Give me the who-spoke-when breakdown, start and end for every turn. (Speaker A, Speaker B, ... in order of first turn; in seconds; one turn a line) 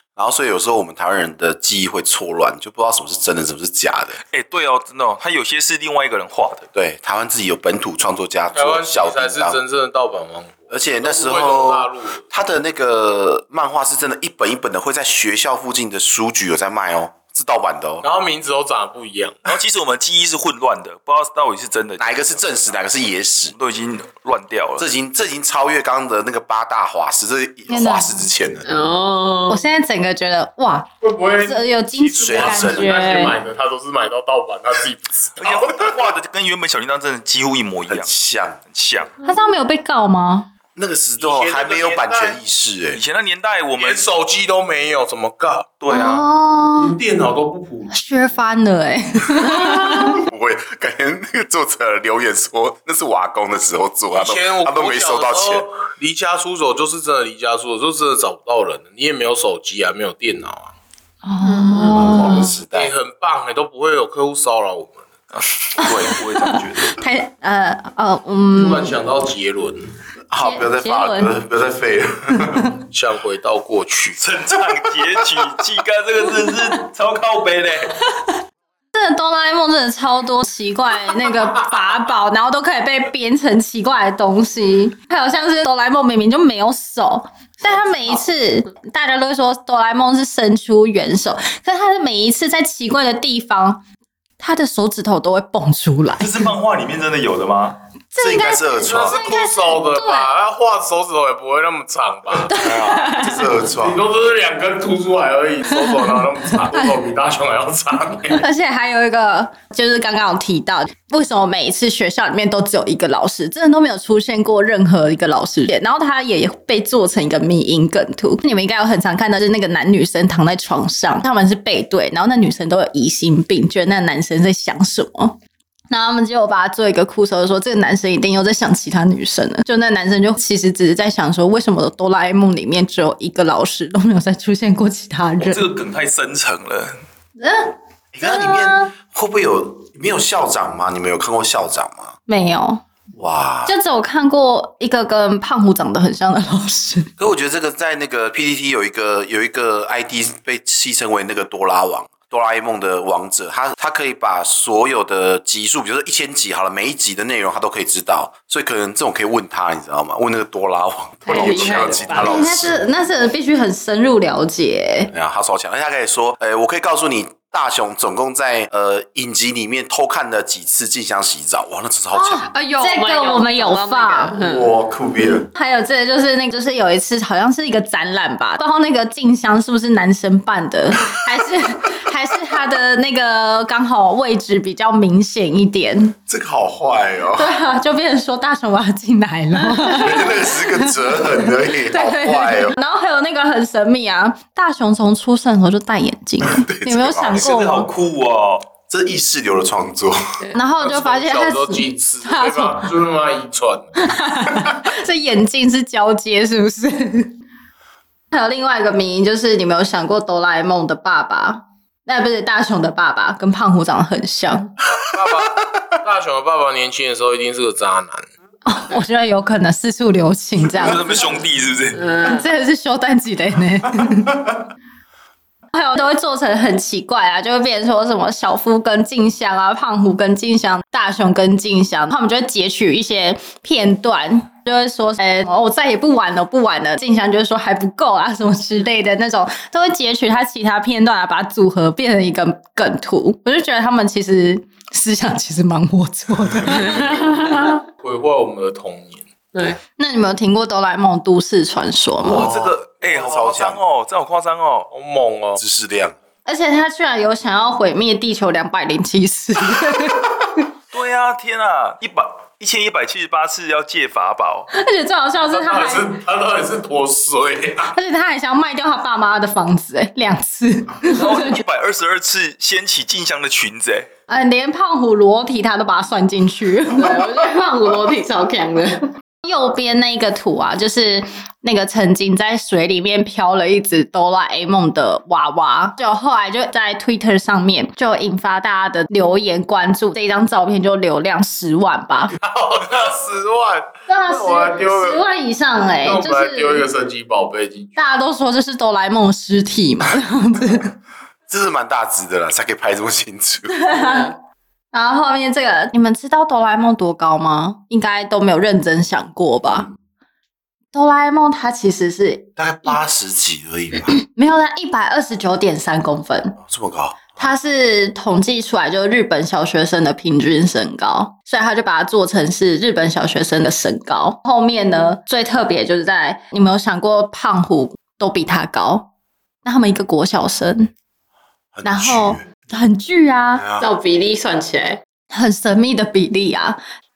Speaker A: 0.1-4.2
Speaker B: 4.3-6.7
Speaker A: 6.7-9.6
Speaker C: 8.5-12.2
Speaker A: 10.7-18.0
Speaker C: 18.0-19.5
Speaker B: 19.4-22.5
Speaker A: 22.0-23.5
Speaker B: 23.5-24.8
Speaker A: 24.8-28.7
Speaker D: 27.7-28.1
Speaker E: 28.6-29.6
Speaker D: 29.5-33.4
Speaker C: 31.0-35.9
Speaker A: 32.2-32.9
Speaker B: 35.4-38.1
Speaker A: 37.9-38.6
Speaker B: 38.6-39.1
Speaker D: 39.2-40.5
Speaker A: 40.7-43.0
Speaker C: 41.2-42.4
Speaker B: 42.9-44.0
Speaker C: 43.8-45.7
Speaker B: 45.8-46.3
Speaker D: 45.9-47.0
Speaker C: 46.7-48.0
Speaker D: 47.9-50.2
Speaker C: 49.5-49.8
Speaker A: 49.9-55.7
Speaker C: 54.1-60.7
Speaker D: 61.2-62.5
Speaker E: 61.4-62.4
Speaker A: 61.9-62.9
Speaker C: 62.7-65.0
Speaker B: 65.3-67.0
Speaker D: 65.8-69.0
Speaker C: 68.5-69.9
Speaker A: 70.3-72.6
Speaker D: 70.4-71.3
Speaker C: 72.8-74.2
Speaker B: 74.2-78.0
Speaker D: 78.9-93.8
Speaker D: 94.4-96.5
Speaker B: 96.2-97.8
Speaker D: 98.1-100.3
Speaker A: 98.2-99.2
Speaker C: 98.8-102.5
Speaker D: 102.5-103.5
Speaker A: 102.5-104.0
Speaker C: 103.8-108.4
Speaker D: 108.4-125.3
Speaker D: 125.9-135.7
Speaker B: 135.4-136.9
Speaker D: 137.4-138.9
Speaker A: 138.1-142.1
Speaker D: 142.3-142.8
Speaker A: 143.2-143.7
Speaker D: 143.7-147.1
Speaker A: 147.2-162.8
Speaker E: 161.3-162.4
Speaker C: 161.4-162.3
Speaker D: 162.2-165.1
Speaker A: 165.1-172.5
Speaker D: 172.2-174.3
Speaker E: 172.5-174.7
Speaker A: 174.4-175.5
Speaker D: 175.5-186.2
Speaker A: 186.3-187.5
Speaker D: 187.3-197.9
Speaker A: 189.8-192.7
Speaker A: 196.4-197.5
Speaker B: 197.4-198.7
Speaker A: 198.9-200.3
Speaker D: 200.5-202.9
Speaker C: 200.8-204.0
Speaker D: 204.0-207.3
Speaker D: 208.3-214.7
Speaker C: 215.0-218.3
Speaker D: 218.7-221.2
Speaker B: 220.7-222.1
Speaker E: 221.9-222.4
Speaker D: 222.2-224.4
Speaker D: 225.7-247.7
Speaker E: 246.7-247.7
Speaker C: 248.0-249.3
Speaker E: 249.5-249.8
Speaker D: 250.0-252.5
Speaker A: 252.2-253.8
Speaker B: 252.2-254.9
Speaker C: 254.9-255.6
Speaker A: 255.6-256.1
Speaker D: 256.4-260.4
Speaker B: 260.9-264.7
Speaker D: 264.7-266.1
Speaker C: 265.4-267.9
Speaker D: 267.9-271.6
Speaker B: 271.1-274.1
Speaker D: 274.3-277.2
Speaker E: 276.9-279.1
Speaker D: 279.4-292.3
Speaker C: 292.4-295.2
Speaker D: 294.1-296.9
Speaker C: 296.0-297.9
Speaker D: 297.9-300.9
Speaker A: 301.5-303.8
Speaker D: 303.7-304.3
Speaker E: 303.9-304.3
Speaker D: 304.9-309.9
Speaker D: 310.9-312.9
Speaker A: 312.6-314.2
Speaker D: 314.1-316.6
Speaker A: 316.6-317.5
Speaker D: 317.4-329.1
Speaker D: 329.6-330.9
Speaker A: 331.7-332.4
Speaker D: 331.8-333.6
Speaker A: 333.6-333.9
Speaker E: 333.8-335.0
Speaker D: 335.3-336.8